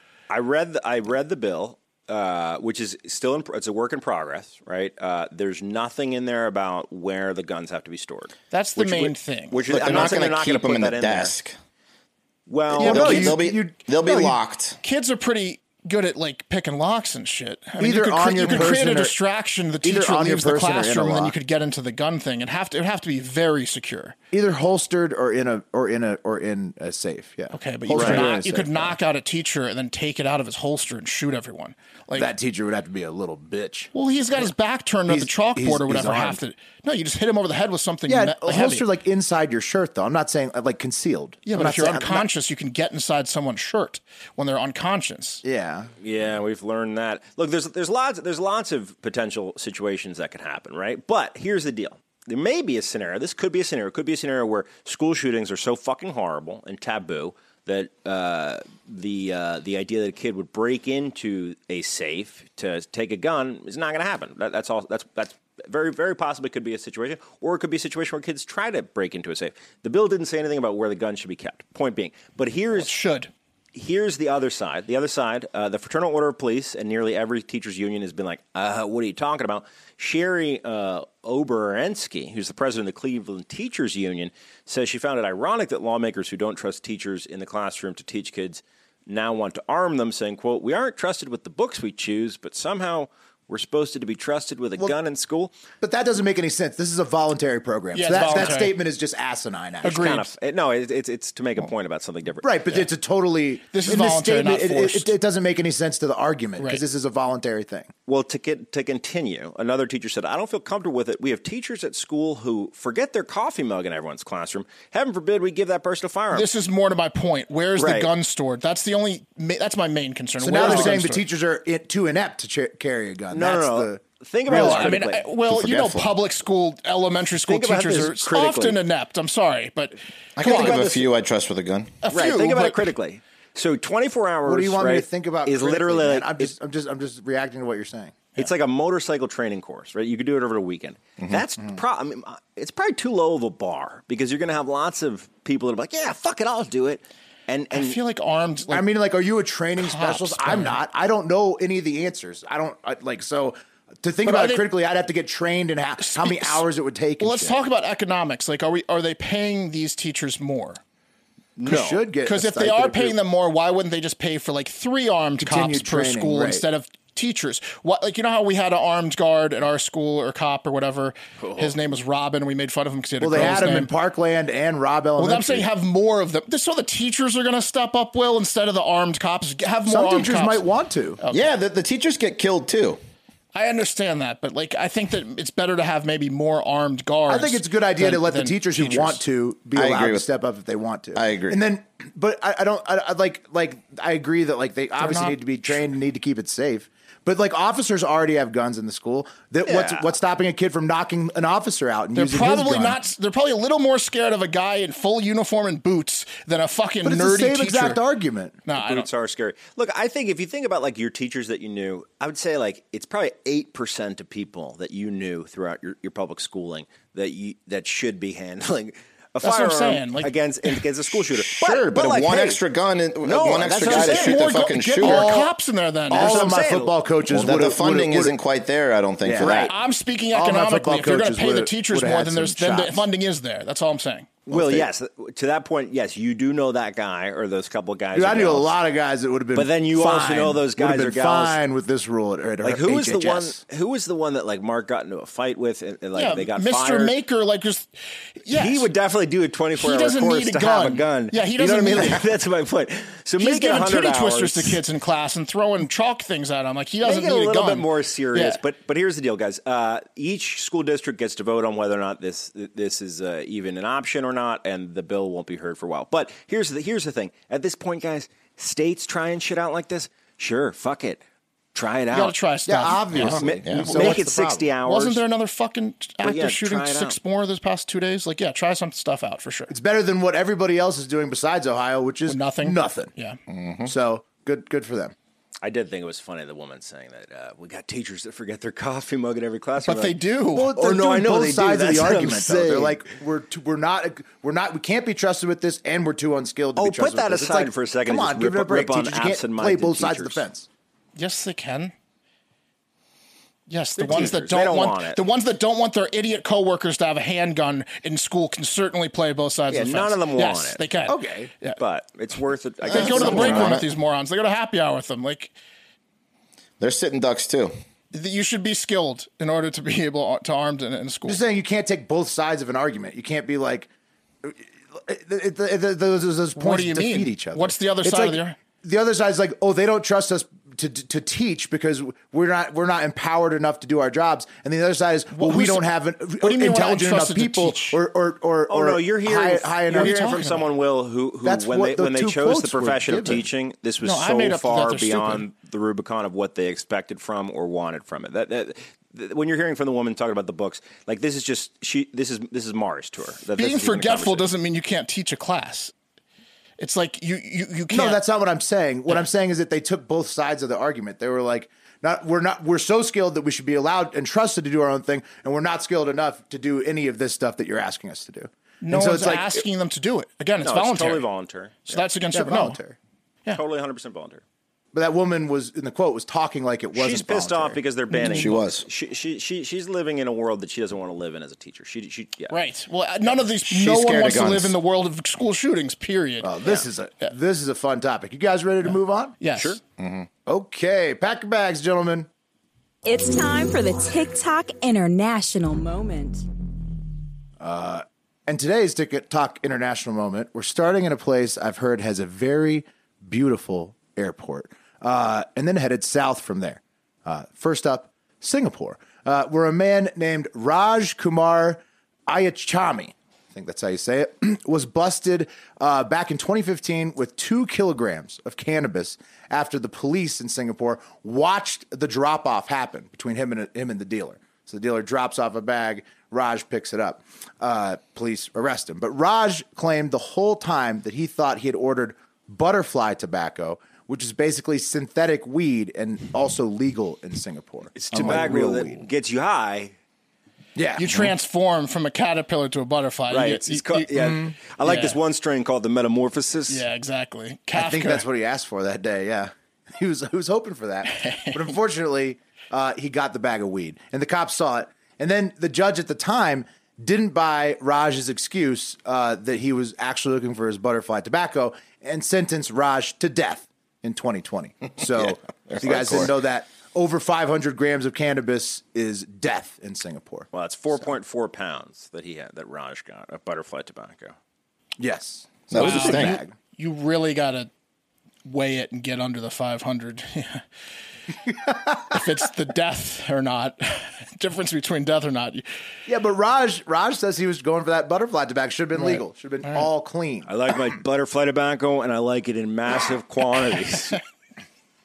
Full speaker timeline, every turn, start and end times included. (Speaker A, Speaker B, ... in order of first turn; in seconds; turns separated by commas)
Speaker A: 0.3-11.3, Speaker B: 8.5-9.6, Speaker C: 9.7-11.6, Speaker A: 12.5-13.3, Speaker D: 12.7-14.4, Speaker C: 12.8-14.8, Speaker B: 12.8-13.3, Speaker B: 14.8-24.2, Speaker D: 17.8-19.1, Speaker D: 19.8-21.3, Speaker D: 24.3-29.0, Speaker B: 27.5-32.3, Speaker A: 28.0-28.3, Speaker D: 32.2-34.5, Speaker B: 33.9-38.9, Speaker D: 35.1-36.4, Speaker D: 38.1-42.3, Speaker B: 41.5-45.4, Speaker D: 45.5-45.9, Speaker A: 46.0-72.9, Speaker B: 72.7-73.3, Speaker A: 73.7-95.5, Speaker D: 95.8-100.0, Speaker B: 97.9-98.8, Speaker A: 98.1-98.7, Speaker B: 99.8-100.3, Speaker A: 99.8-102.7, Speaker D: 102.4-107.9, Speaker B: 103.7-105.1, Speaker A: 108.1-116.5, Speaker B: 116.3-121.2, Speaker A: 117.8-118.1, Speaker D: 120.4-125.0, Speaker A: 120.6-121.0, Speaker A: 123.3-125.3, Speaker B: 124.5-130.8, Speaker C: 125.5-126.1, Speaker A: 127.4-128.8, Speaker C: 130.4-131.9, Speaker A: 130.4-131.1, Speaker B: 132.0-132.9, Speaker A: 132.1-136.5, Speaker D: 134.4-138.2, Speaker A: 138.4-148.0, Speaker C: 141.2-141.4, Speaker B: 147.7-148.9, Speaker D: 148.7-157.6, Speaker B: 149.8-150.8, Speaker B: 154.3-154.7, Speaker B: 156.0-156.7, Speaker B: 157.2-160.8, Speaker A: 161.6-162.0, Speaker D: 161.6-163.2, Speaker B: 162.2-173.9, Speaker D: 165.4-166.6, Speaker A: 171.4-171.8, Speaker D: 173.2-175.7, Speaker B: 175.2-180.7, Speaker D: 179.9-181.2, Speaker B: 181.2-181.5, Speaker C: 181.3-183.0, Speaker B: 183.5-189.2, Speaker D: 187.3-203.0, Speaker C: 189.8-190.3, Speaker C: 191.2-191.6, Speaker B: 195.0-195.8, Speaker A: 199.6-200.1, Speaker B: 202.2-208.0, Speaker D: 207.0-208.6, Speaker B: 208.7-209.1, Speaker A: 208.8-222.6, Speaker B: 219.4-220.8, Speaker C: 221.5-225.3, Speaker A: 223.2-224.4, Speaker B: 223.8-226.5, Speaker D: 225.0-225.5, Speaker D: 226.1-228.4, Speaker A: 226.1-226.9, Speaker C: 227.3-229.7, Speaker D: 229.2-229.7, Speaker A: 229.4-229.7, Speaker B: 229.5-234.3, Speaker D: 230.3-233.1, Speaker A: 234.5-238.8, Speaker C: 234.5-234.9, Speaker D: 238.1-243.6, Speaker A: 239.5-241.6, Speaker A: 242.6-247.2, Speaker B: 246.2-248.9, Speaker A: 248.5-254.8, Speaker B: 249.8-252.2, Speaker B: 253.4-258.6, Speaker A: 257.0-271.2, Speaker A: 271.7-272.4, Speaker B: 272.1-273.4, Speaker D: 272.7-274.7, Speaker C: 273.1-274.1, Speaker A: 273.2-275.2, Speaker B: 274.9-279.7, Speaker A: 276.2-277.2, Speaker D: 279.7-283.1, Speaker B: 282.3-283.4, Speaker C: 283.5-283.9, Speaker D: 283.9-285.1, Speaker A: 285.6-290.2, Speaker B: 289.8-290.7, Speaker D: 290.5-300.7, Speaker A: 290.8-293.1, Speaker A: 296.8-300.4, Speaker B: 301.2-301.9, Speaker B: 303.7-311.8, Speaker A: 304.0-305.2, Speaker A: 309.7-310.8, Speaker D: 311.1-311.5, Speaker A: 311.8-313.8, Speaker C: 312.9-313.9, Speaker B: 312.9-315.5, Speaker C: 316.8-317.7, Speaker B: 318.1-321.4, Speaker D: 321.3-323.9, Speaker D: 324.4-340.3, Speaker B: 326.6-328.6, Speaker B: 335.3-335.9, Speaker B: 336.4-338.0, Speaker A: 338.7-354.5, Speaker B: 339.9-340.7, Speaker D: 341.4-343.4, Speaker B: 344.0-345.4, Speaker B: 353.6-355.9, Speaker B: 356.8-358.2, Speaker D: 357.9-369.6, Speaker B: 368.8-371.2, Speaker A: 370.6-372.0, Speaker B: 371.9-372.8, Speaker D: 372.3-373.0, Speaker A: 373.5-374.4, Speaker D: 374.9-377.8, Speaker A: 376.9-382.6, Speaker C: 378.2-378.9, Speaker B: 382.5-386.5, Speaker C: 383.6-384.8, Speaker D: 386.4-389.4, Speaker B: 388.9-389.8, Speaker C: 390.0-390.3, Speaker D: 390.5-392.3, Speaker E: 393.1-396.4, Speaker D: 397.6-439.1, Speaker A: 437.9-439.9, Speaker D: 440.8-441.3, Speaker B: 441.0-445.2, Speaker A: 443.3-446.9, Speaker B: 446.7-448.2, Speaker D: 447.8-470.5, Speaker B: 451.2-451.6, Speaker C: 465.0-466.4, Speaker A: 470.5-474.4, Speaker D: 475.0-476.5, Speaker C: 475.7-476.4, Speaker B: 475.8-477.7, Speaker B: 478.4-480.6, Speaker D: 481.7-482.0, Speaker B: 482.1-485.6, Speaker D: 486.1-490.5, Speaker B: 488.9-489.9, Speaker A: 490.5-494.2